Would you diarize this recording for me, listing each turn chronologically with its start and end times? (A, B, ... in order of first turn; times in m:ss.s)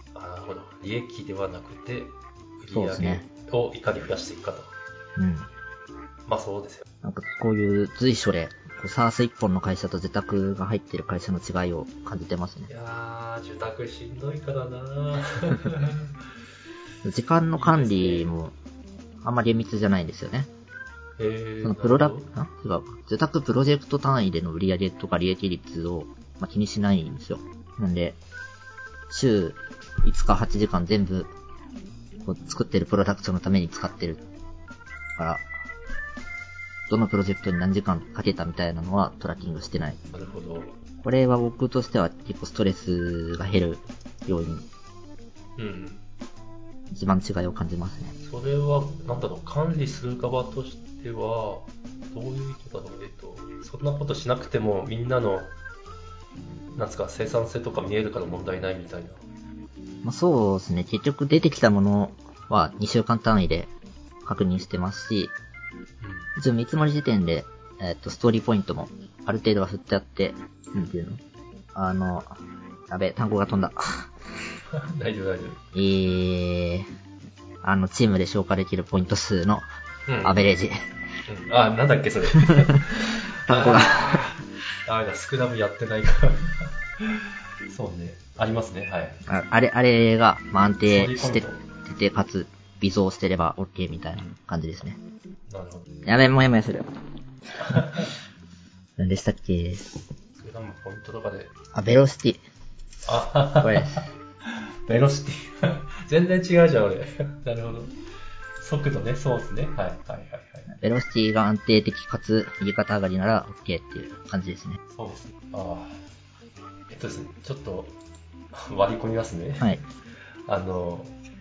0:00.1-0:04.7 A
0:02.7-0:03.3 B
0:05.2-0:05.5 B
0:06.3-0:06.8 A
0:07.0-0:12.7 B
0:12.7-0:16.1 A
0:17.0-0:18.5 B
0:17.6-0:18.3 A
0:19.2-0:20.5 B
0:21.2-0:22.3 A
0:21.6-0:28.2 B
0:29.1-0:31.3 B
0:32.2-0:34.2 B
0:35.2-0:35.5 B
0:36.9-0:40.0 B
0:40.1-0:40.8 A
0:41.0-0:44.7 B
0:45.6-0:46.0 A
0:46.9-0:48.1 B
0:48.2-0:55.5 A
0:56.8-0:59.2 A
1:00.0-1:03.7 B
1:04.2-1:05.4 B
1:06.0-1:06.3 A
1:06.4-1:11.2 B
1:11.8-1:12.4 B
1:12.9-1:14.1 B
1:14.7-1:15.6 A
1:15.7-1:16.9 B
1:17.6-1:19.7 B
1:20.1-1:20.4 A
1:20.2-1:20.9 B
1:21.3-1:29.2 A
1:23.5-1:24.3 B
1:29.3-1:35.0 B
1:30.9-1:31.6 A
1:35.5-1:35.9 A
1:36.1-1:36.9 B
1:37.6-1:38.1 A
1:39.0-1:40.0 B
1:40.4-1:41.5 A
1:41.7-1:42.4 B
1:43.1-1:48.0 A
1:43.6-1:44.0 B
1:48.6-1:50.7 A
1:50.7-1:54.8 B
1:54.9-1:56.0 A
1:56.9-1:58.0 A
1:58.5-1:59.9 A
2:00.4-2:01.2 A